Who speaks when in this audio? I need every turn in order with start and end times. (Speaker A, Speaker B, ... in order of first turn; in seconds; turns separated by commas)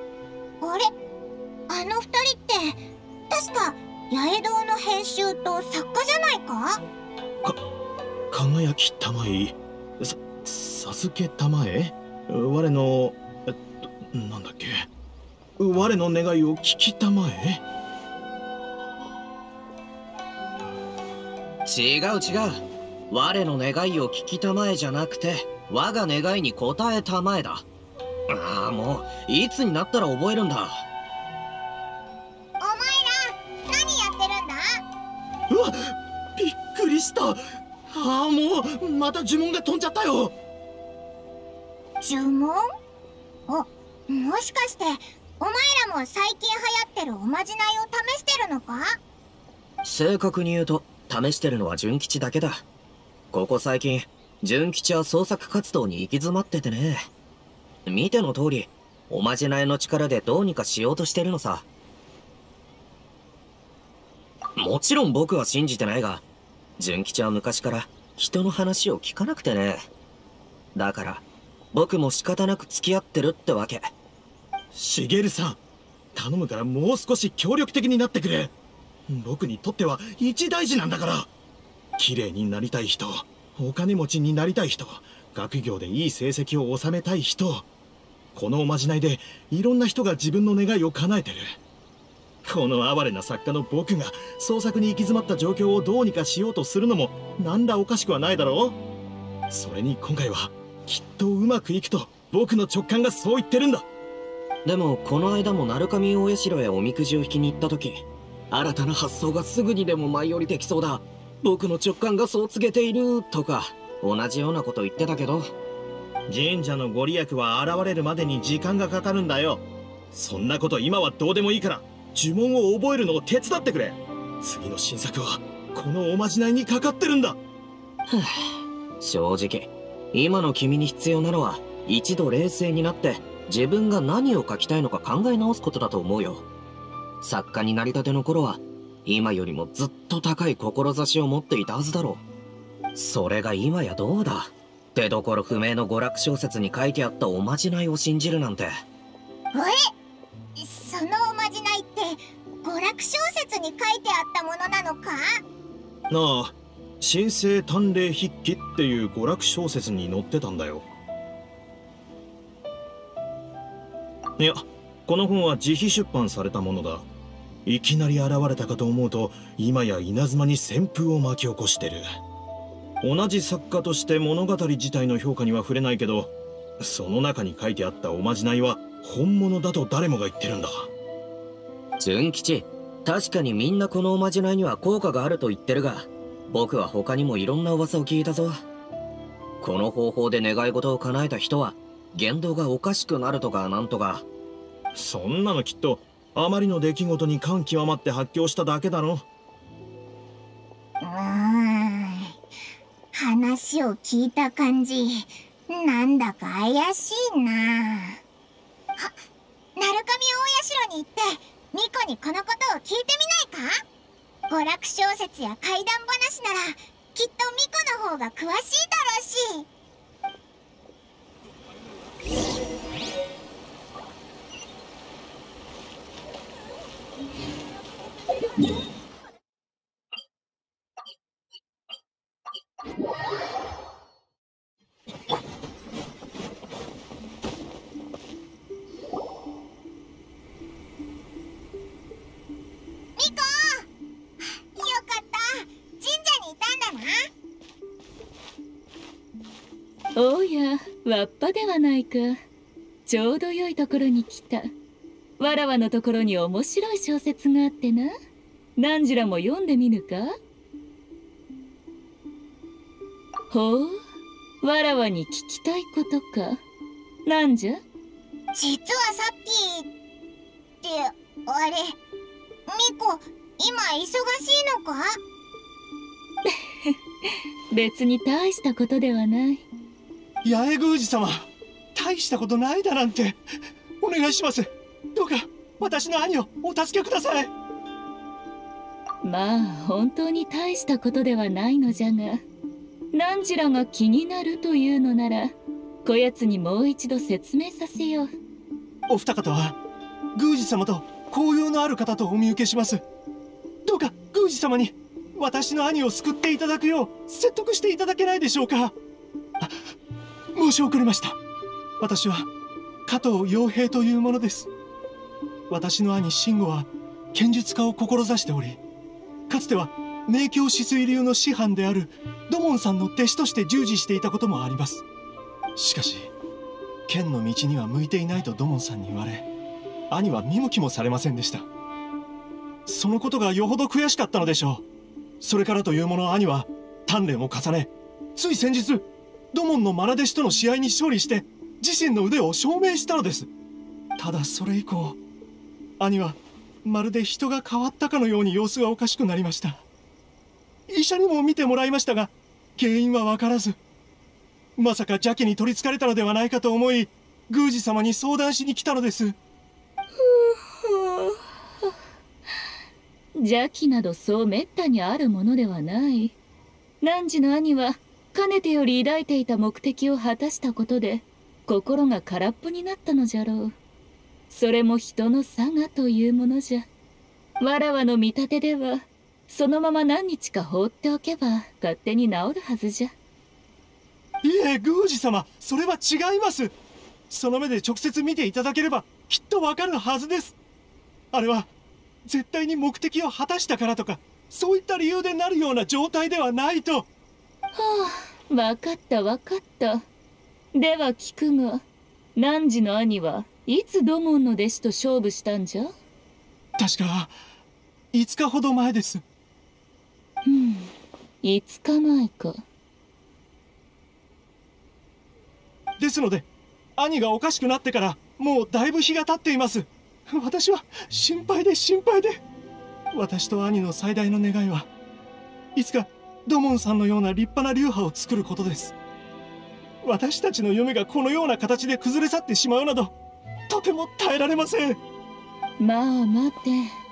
Speaker A: 0.6-0.9, Speaker A: 1.7-6.8, Speaker B: 8.3-14.9, Speaker B: 15.6-17.6, Speaker C: 21.6-27.7, Speaker C: 28.3-30.8, Speaker A: 32.6-34.8, Speaker B: 35.5-40.3, Speaker A: 42.0-42.6, Speaker A: 43.5-49.0, Speaker C: 49.8-52.6, Speaker C: 53.3-57.0, Speaker C: 57.9-61.7, Speaker C: 64.6-66.2, Speaker C: 66.8-69.8, Speaker C: 70.8-73.9, Speaker B: 74.7-75.6, Speaker B: 76.1-78.5, Speaker B: 79.1-81.3, Speaker B: 82.0-87.7, Speaker B: 88.3-91.5, Speaker B: 92.4-98.8, Speaker B: 99.5-103.8, Speaker C: 104.7-115.5, Speaker B: 116.3-127.4, Speaker C: 128.1-136.5, Speaker C: 137.2-142.2, Speaker C: 142.9-148.8, Speaker A: 149.5-149.9, Speaker A: 150.6-155.4, Speaker B: 156.1-160.8, Speaker B: 164.4-167.1, Speaker B: 167.7-172.1, Speaker B: 173.0-180.9, Speaker C: 182.0-188.6, Speaker C: 189.6-194.2, Speaker B: 194.9-199.2, Speaker A: 201.0-202.3, Speaker A: 203.1-208.2, Speaker A: 209.8-213.8, Speaker A: 214.5-219.7, Speaker A: 243.2-243.9, Speaker A: 244.4-247.3, Speaker D: 250.2-252.4, Speaker D: 253.1-254.7, Speaker D: 255.4-258.1, Speaker D: 258.8-260.3, Speaker D: 263.5-264.0, Speaker D: 264.6-266.6, Speaker D: 267.2-267.8, Speaker A: 268.5-269.9, Speaker A: 270.8-272.0, Speaker A: 272.7-275.2, Speaker D: 276.5-279.6, Speaker E: 280.4-283.4, Speaker E: 284.0-287.5, Speaker D: 289.2-292.4, Speaker D: 293.1-298.3, Speaker E: 299.1-299.8, Speaker E: 300.3-303.0, Speaker E: 303.8-308.9, Speaker E: 310.5-311.4, Speaker E: 312.0-312.5, Speaker E: 313.1-314.7, Speaker E: 315.7-318.8, Speaker E: 319.5-325.0, Speaker E: 325.8-326.3, Speaker E: 327.1-329.5, Speaker E: 330.1-331.7, Speaker E: 332.9-334.8, Speaker E: 335.4-343.5, Speaker E: 344.2-345.2, Speaker E: 346.0-349.8, Speaker E: 350.9-353.8, Speaker E: 354.8-359.4, Speaker D: 360.1-361.9, Speaker D: 363.3-366.4, Speaker D: 367.0-373.7, Speaker D: 374.5-376.9, Speaker D: 377.6-383.1, Speaker E: 384.4-386.8, Speaker E: 387.3-390.6, Speaker E: 391.3-391.7, Speaker E: 392.2-397.1, Speaker D: 397.7-400.0, Speaker D: 400.7-401.8, Speaker D: 402.4-405.9, Speaker E: 406.8-407.3, Speaker E: 408.1-409.2, Speaker D: 410.4-412.6, Speaker E: 416.0-422.4, Speaker E: 423.1-424.9, Speaker E: 425.8-428.9, Speaker E: 430.0-433.1, Speaker E: 433.7-435.0, Speaker D: 435.8-436.9